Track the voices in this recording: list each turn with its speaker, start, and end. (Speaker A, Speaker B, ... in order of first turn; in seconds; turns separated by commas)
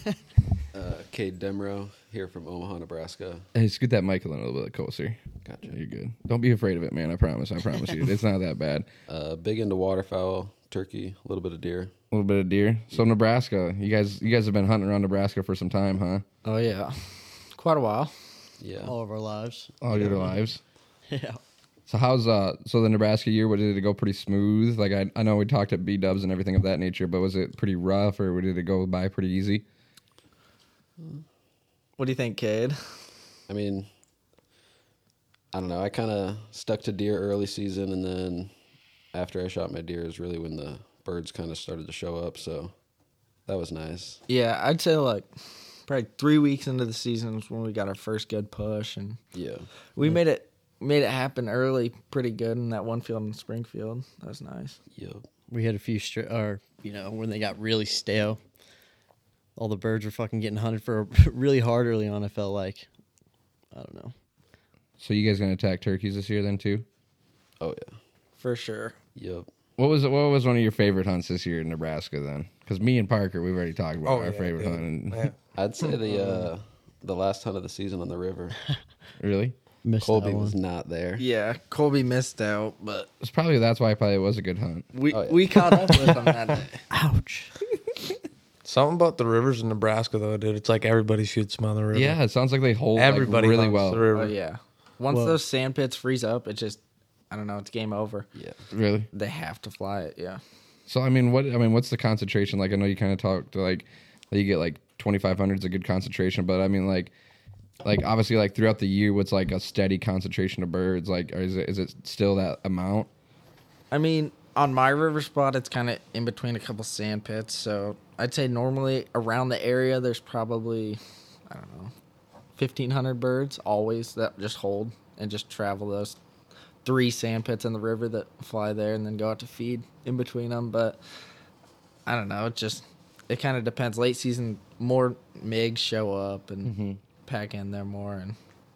Speaker A: 0.7-3.5, Speaker B: 3.5-5.2, Speaker A: 5.4-5.7, Speaker B: 5.7-8.9, Speaker A: 9.1-11.9, Speaker B: 12.1-16.2, Speaker C: 16.4-16.9, Speaker C: 17.5-18.1, Speaker A: 18.6-18.9, Speaker D: 18.8-20.3, Speaker B: 19.8-20.6, Speaker A: 19.9-20.2, Speaker D: 21.1-21.4, Speaker B: 21.9-29.6, Speaker C: 32.0-32.8, Speaker A: 33.5-33.9, Speaker A: 35.5-38.5, Speaker A: 39.1-42.7, Speaker A: 43.5-44.2, Speaker C: 44.3-45.3, Speaker C: 45.9-49.2, Speaker A: 49.3-49.6, Speaker C: 50.0-54.8, Speaker A: 54.9-55.2, Speaker D: 55.5-58.4, Speaker D: 59.5-62.9, Speaker D: 63.7-64.1, Speaker B: 65.0-66.8, Speaker A: 67.6-67.9, Speaker C: 68.4-68.9, Speaker A: 69.1-69.5, Speaker B: 69.8-75.3, Speaker E: 74.0-75.3, Speaker A: 75.5-78.5, Speaker B: 79.2-79.5, Speaker D: 79.8-80.5, Speaker A: 80.0-81.2, Speaker C: 81.2-83.1, Speaker B: 83.2-84.9, Speaker C: 84.9-86.8, Speaker A: 85.1-86.1, Speaker D: 86.9-87.5, Speaker E: 88.6-92.2, Speaker B: 91.9-94.0, Speaker E: 93.0-94.3, Speaker C: 94.1-96.8, Speaker D: 95.1-95.4, Speaker C: 97.3-98.2, Speaker B: 98.7-99.1, Speaker C: 99.1-100.4, Speaker B: 100.9-107.1, Speaker B: 107.8-113.1, Speaker C: 113.9-121.9, Speaker C: 122.6-126.2, Speaker C: 126.8-131.0, Speaker C: 132.1-136.7, Speaker B: 136.6-137.0, Speaker C: 137.2-138.4